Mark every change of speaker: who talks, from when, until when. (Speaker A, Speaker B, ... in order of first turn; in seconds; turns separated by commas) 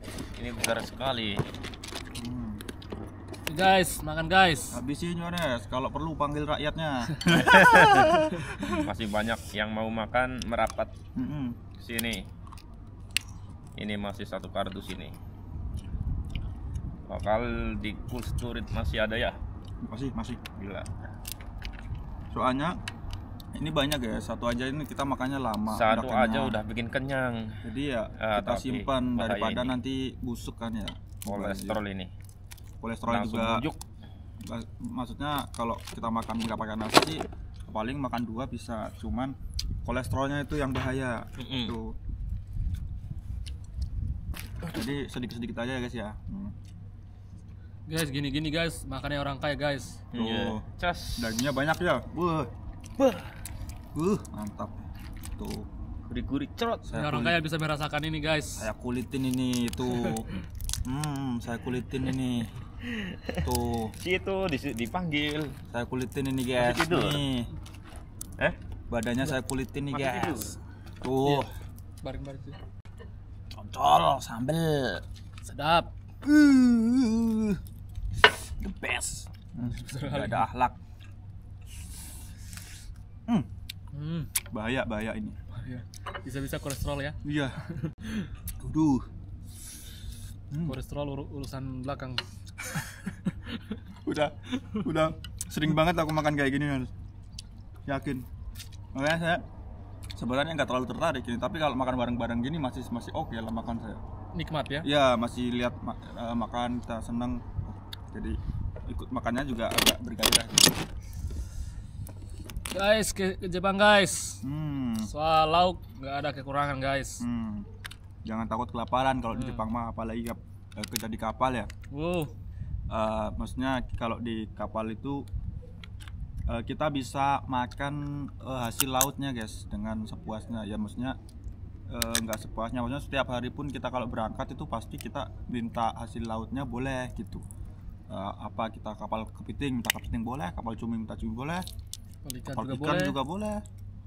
Speaker A: 0.3-1.4, Speaker B: 2.2-2.6, Speaker C: 3.5-4.8, Speaker B: 4.7-8.8, Speaker A: 7.4-8.1, Speaker A: 8.7-10.9, Speaker B: 11.2-11.6, Speaker A: 11.8-12.2, Speaker A: 13.8-15.2, Speaker A: 17.1-19.4, Speaker B: 19.8-20.5, Speaker A: 20.5-21.1, Speaker B: 22.3-22.8, Speaker B: 23.6-26.6, Speaker A: 25.7-27.6, Speaker B: 27.6-31.8, Speaker A: 28.2-29.8, Speaker A: 31.3-32.1, Speaker B: 32.8-33.7, Speaker A: 33.1-33.8, Speaker B: 34.4-42.0, Speaker A: 41.4-41.8, Speaker B: 44.7-46.5, Speaker C: 47.9-50.0, Speaker A: 50.1-51.4, Speaker B: 50.1-50.6, Speaker B: 51.2-52.5, Speaker A: 53.0-53.4, Speaker B: 53.9-55.7, Speaker A: 56.1-57.0, Speaker B: 56.9-57.4, Speaker C: 56.9-58.7, Speaker B: 58.6-60.3, Speaker B: 60.9-62.5, Speaker A: 62.8-65.6, Speaker B: 63.4-63.9, Speaker B: 65.7-67.5, Speaker A: 66.6-67.2, Speaker B: 68.9-71.5, Speaker A: 69.9-70.6, Speaker C: 72.0-72.6, Speaker B: 73.6-75.0, Speaker C: 75.4-75.9, Speaker B: 76.2-77.6, Speaker B: 78.6-80.8, Speaker C: 79.6-80.5, Speaker C: 83.9-84.3, Speaker B: 84.5-85.4, Speaker C: 85.6-88.3, Speaker B: 87.2-87.6, Speaker B: 88.6-89.1, Speaker B: 90.5-90.8, Speaker C: 90.6-93.7, Speaker B: 94.0-96.9, Speaker B: 97.9-98.3, Speaker B: 98.9-99.4, Speaker B: 100.2-104.0, Speaker C: 104.3-104.9, Speaker B: 104.8-110.8, Speaker C: 112.7-114.4, Speaker B: 114.4-115.1, Speaker C: 115.0-117.2, Speaker B: 117.2-117.7, Speaker B: 118.2-121.7, Speaker C: 119.3-119.6, Speaker C: 121.9-122.3, Speaker B: 122.9-125.2, Speaker B: 126.5-131.2, Speaker B: 131.9-137.4, Speaker B: 138.1-141.7, Speaker C: 142.2-143.2, Speaker B: 142.5-143.6